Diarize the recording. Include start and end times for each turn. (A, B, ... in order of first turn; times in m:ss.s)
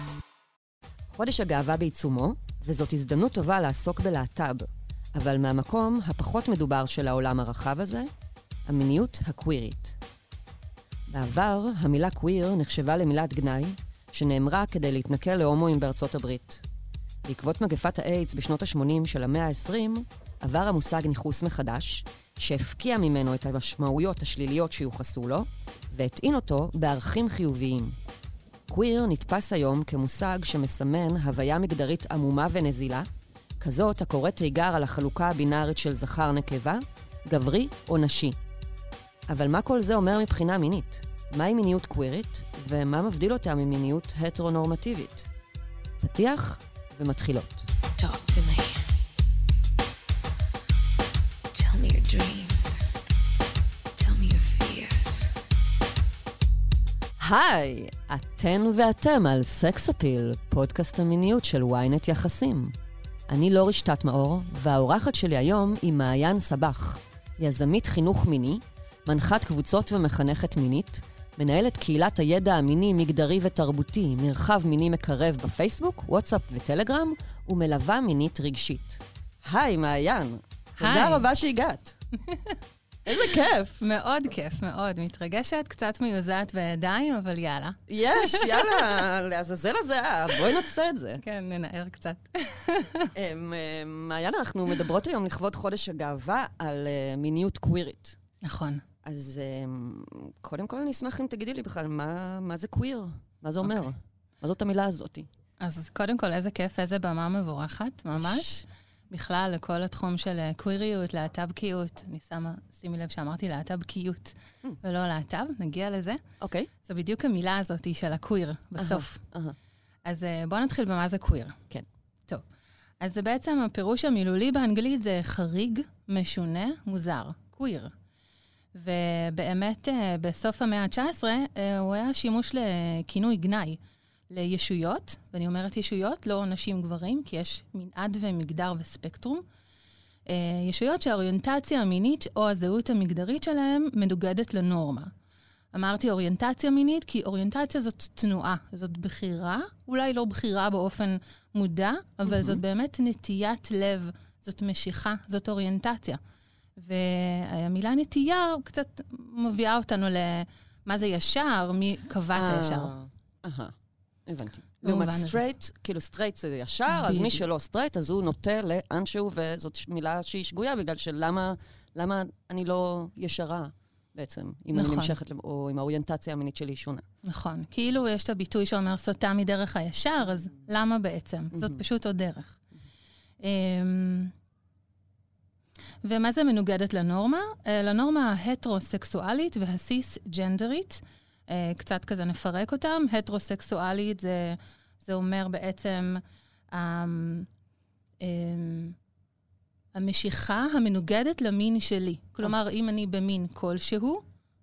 0:01.1-0:08.1 A
0:08.6-0:10.0 A
0:11.1-0:16.6 A
0:17.2-0:28.0 A
0:28.7-0:33.1 A
0:33.6-0:38.4 A
0:39.3-0:45.3 A
0:46.0-0:47.7 A
0:48.0-0:48.8 B
0:51.5-0:52.8 B
0:54.0-0:55.3 B
0:57.2-1:02.7 A
1:03.3-1:22.0 A
1:20.8-1:21.3 C
1:22.3-1:22.6 C
1:23.0-1:23.8 A
1:23.8-1:29.0 C
1:27.9-1:31.2 A
1:31.2-1:33.1 C
1:33.1-1:38.2 A
1:38.4-1:38.8 C
1:39.0-1:45.3 A
1:45.6-1:56.2 C
1:56.4-1:56.7 A
1:56.8-1:59.2 C
1:58.8-1:59.6 A
2:00.0-2:01.6 C
2:03.0-2:07.9 C
2:08.7-2:13.8 C
2:14.3-2:19.4 C
2:20.3-2:25.1 C
2:25.7-2:36.2 C
2:32.2-2:32.6 A
2:36.8-2:43.0 C
2:42.3-2:43.7 A
2:44.2-2:57.0 A
2:44.8-2:45.4 C
2:46.9-2:47.4 C
2:54.7-2:55.2 C
2:57.2-3:02.6 C
3:01.5-3:01.8 A
3:03.4-3:04.3 C
3:06.0-3:17.5 C
3:18.2-3:19.0 C
3:19.9-3:24.2 C